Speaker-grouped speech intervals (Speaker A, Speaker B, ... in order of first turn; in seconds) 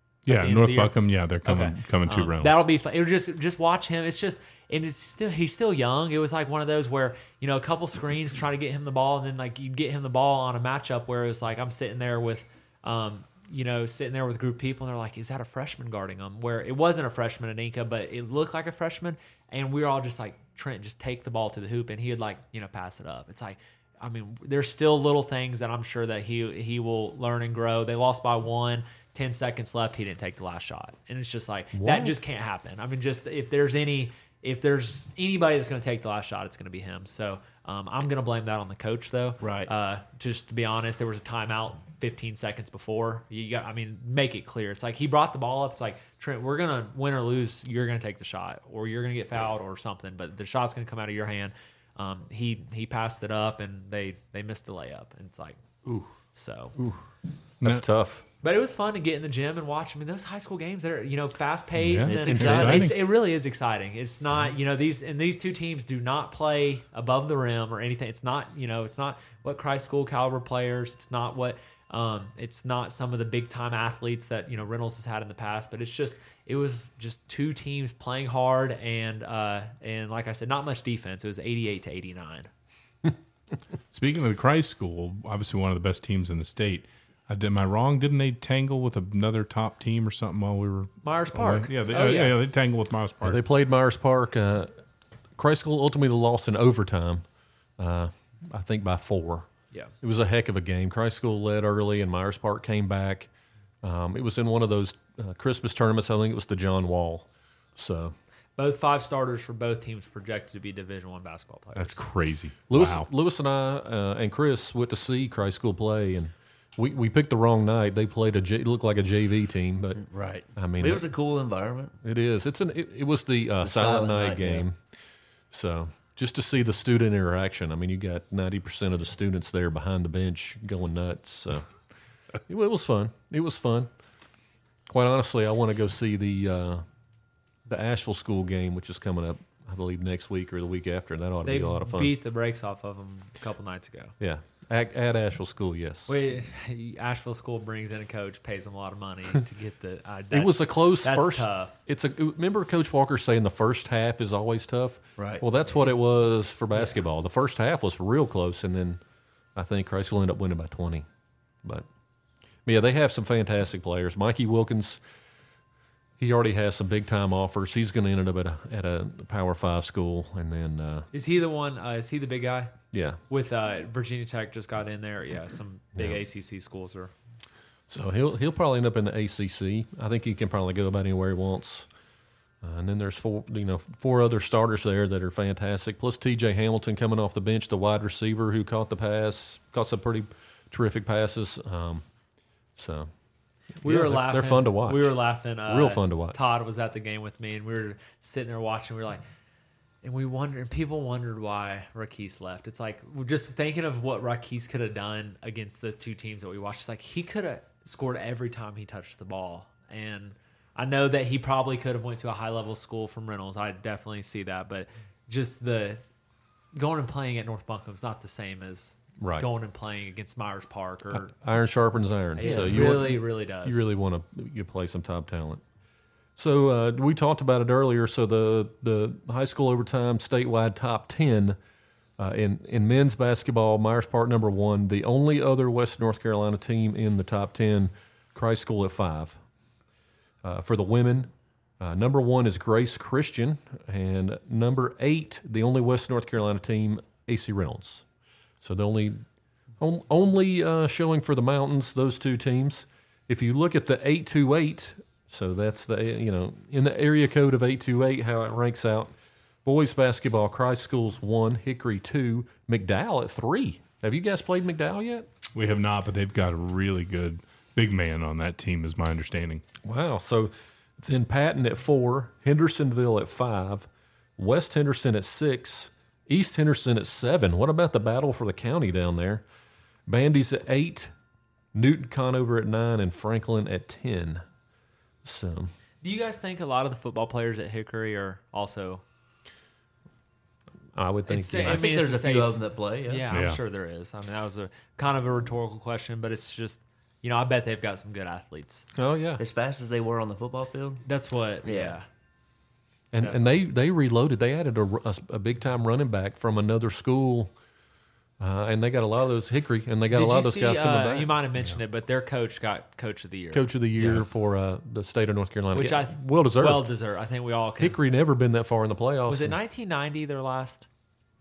Speaker A: 0.2-2.6, 61.8-63.0, 83.9-93.4, 111.8-113.1, 265.5-269.6, 293.3-293.6
Speaker B: 0.3-55.6, 56.2-56.7, 58.4-82.5, 91.0-92.4, 108.6-112.0, 141.4-144.1, 146.1-151.8, 171.1-172.7, 173.3-177.1, 193.8-199.2, 200.0-216.0, 216.7-221.3, 222.3-223.8, 286.0-289.0, 291.3-298.9, 301.1-302.1, 310.1-314.2, 315.7-318.0, 319.3-320.9
Speaker C: 31.7-32.2, 56.8-57.0, 57.6-58.2, 62.1-62.9, 93.2-94.8, 95.3-97.2, 97.8-99.5, 100.0-103.3, 103.8-108.1, 112.7-120.0, 120.5-121.0, 122.0-124.8, 125.5-131.7, 132.5-133.9, 134.9-136.8, 137.7-142.1, 144.2-146.1, 150.3-159.0, 159.5-161.1, 162.7-165.0, 166.2-171.1, 172.9-173.2, 175.9-176.2, 177.9-181.9, 182.6-192.0, 192.8-193.1, 193.8-195.2, 195.7-196.4, 219.2-219.5, 221.1-225.6, 226.4-231.6, 232.2-239.4, 240.4-248.0, 248.6-249.2, 249.8-259.1, 259.6-265.3, 269.8-279.4, 280.1-281.1, 281.7-284.4, 285.2-285.7, 290.9-291.8, 298.9-299.4, 303.1-307.5, 308.4-311.3, 313.5-316.9, 317.8-319.6
Speaker D: 39.4-39.7, 62.2-62.5, 119.9-122.0, 123.6-124.6, 155.2-155.4, 222.4-223.0, 291.6-293.3, 299.4-301.0, 301.6-301.9